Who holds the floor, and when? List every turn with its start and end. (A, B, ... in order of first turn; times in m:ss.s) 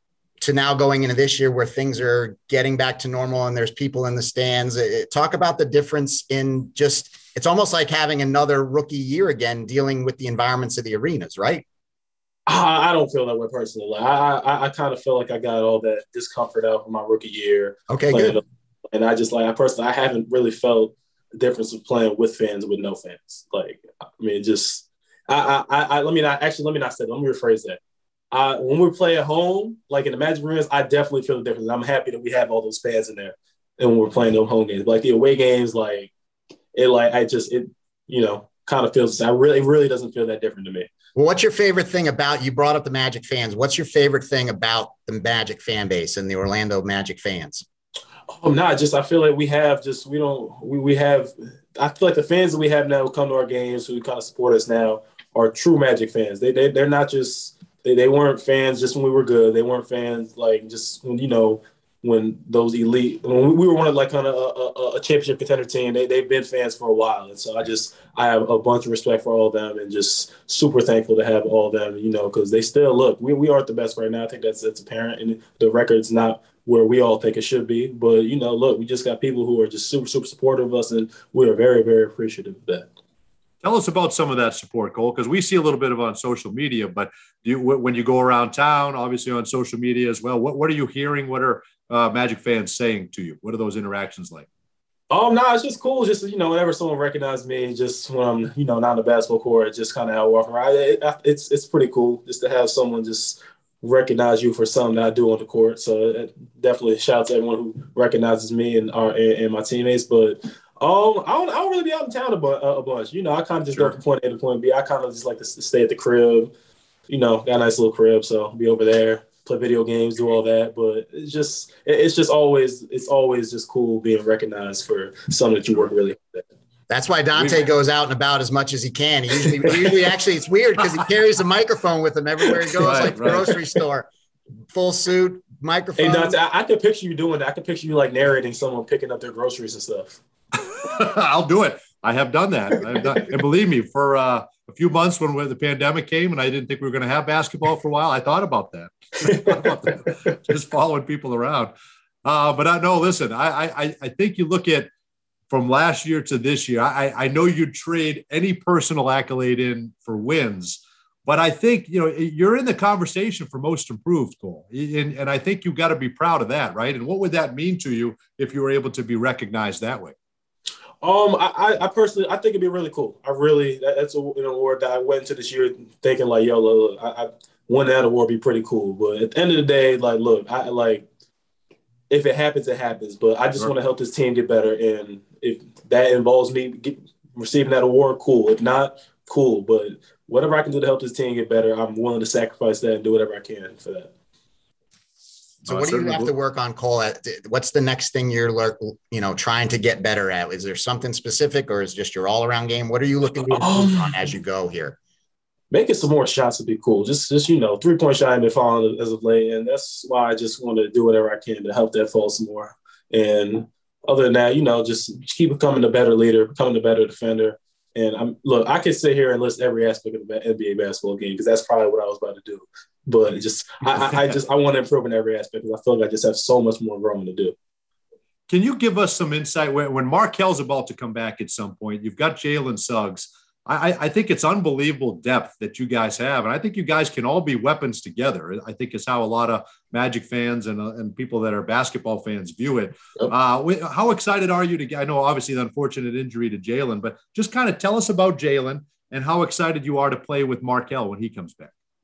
0:00.4-0:11.6 A
0:12.5-0:27.8 B
0:17.9-0:18.4 A
0:28.3-0:36.1 B
0:36.8-0:40.9 B
0:41.2-0:47.6 A
0:48.3-1:22.9 B
1:23.6-1:34.5 C
1:35.1-1:56.5 B
1:53.7-1:54.0 C
1:57.1-2:06.5 B
2:06.9-2:14.1 A
2:07.3-2:07.6 C
2:12.8-2:13.5 C
2:14.7-2:16.4 A
2:16.0-2:20.2 B
2:20.6-2:31.7 C
2:29.2-2:29.5 B
2:32.2-2:34.9 C
2:35.5-2:50.1 C
2:51.0-3:01.1 B
3:02.1-3:14.1 B
3:15.6-3:25.0 A
3:15.7-3:16.3 C
3:23.5-3:24.2 B
3:25.7-3:47.6 B
3:44.0-3:44.4 C
3:48.5-4:11.7 C